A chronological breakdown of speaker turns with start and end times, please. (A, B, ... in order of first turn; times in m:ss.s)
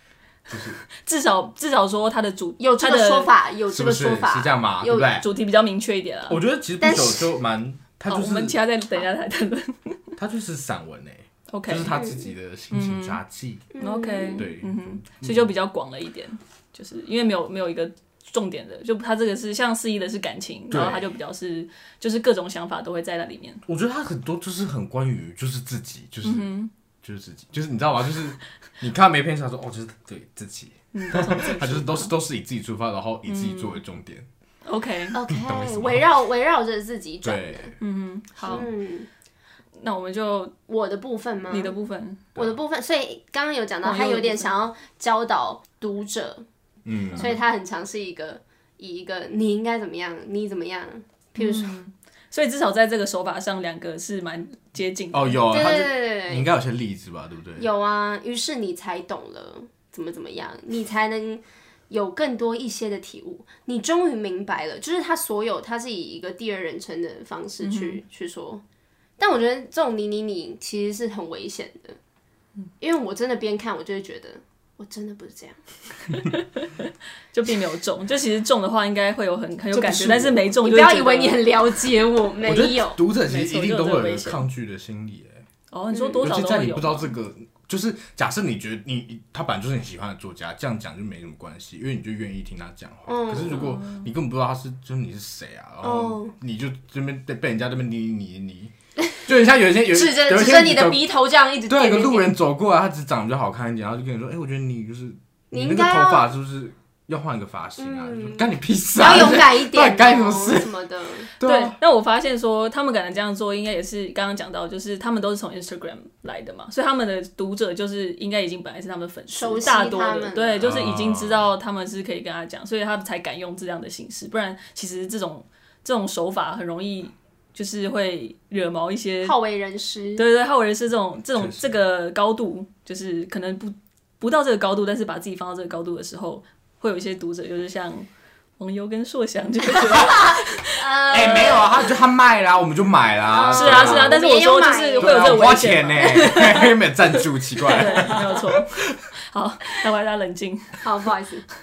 0:00.5-0:00.8 A
0:01.0-0:03.3 B
0:02.6-0:05.1 C
0:03.7-0:05.2 A
0:05.2-0:06.4 B
0:06.3-0:08.6 A
0:06.8-0:07.3 C
0:08.1-0:10.0 B
0:10.2-0:13.7 A
0:11.5-0:12.0 B
0:11.8-0:12.3 C
0:12.7-0:13.2 B
0:13.7-0:14.4 C
0:13.8-0:23.6 B
0:14.4-0:15.5 A
0:20.7-0:21.0 A
0:23.6-0:26.5 A
0:26.2-0:26.7 B
0:27.0-0:34.2 A
0:30.9-0:32.1 B
0:33.2-0:33.8 B
0:34.6-0:35.2 B
0:35.1-0:37.7 C
0:35.3-0:36.0 A
0:37.2-0:37.7 A
0:37.8-0:38.7 B
0:38.4-0:39.1 C
0:39.8-0:40.5 B
0:40.7-0:41.7 C
0:41.5-0:42.2 B
0:42.3-0:46.4 C
0:43.8-0:44.5 B
0:46.8-0:47.3 A
0:47.1-0:51.7 C
0:51.4-0:55.4 B
0:55.1-0:57.7 A
0:55.5-0:56.5 C
0:57.6-1:08.6 C
1:07.6-1:08.0 B
1:09.2-1:12.0 C
1:12.8-1:15.6 C
1:16.1-1:21.4 B
1:19.8-1:23.0 C
1:19.9-1:20.4 A
1:22.4-1:25.4 A
1:23.2-1:24.4 B
1:25.7-1:27.1 B
1:25.9-1:26.2 C
1:26.2-1:38.7 A
1:33.1-1:33.8 C
1:33.5-1:34.1 B
1:35.8-1:36.3 C
1:39.2-1:41.0 A
1:39.9-1:42.3 C
1:41.7-1:50.7 A
1:45.5-1:46.3 C
1:47.8-1:51.3 C
1:51.4-1:51.8 A
1:51.4-2:09.3 B
1:59.3-2:00.7 C
2:00.6-2:01.5 A
2:09.2-2:10.2 C
2:10.2-2:21.6 B
2:11.4-2:11.8 A
2:19.8-2:21.9 C
2:21.1-2:24.2 A
2:23.3-2:26.7 C
2:23.5-2:26.7 B
2:25.0-2:29.0 A
2:27.6-2:30.8 B
2:30.8-2:31.4 C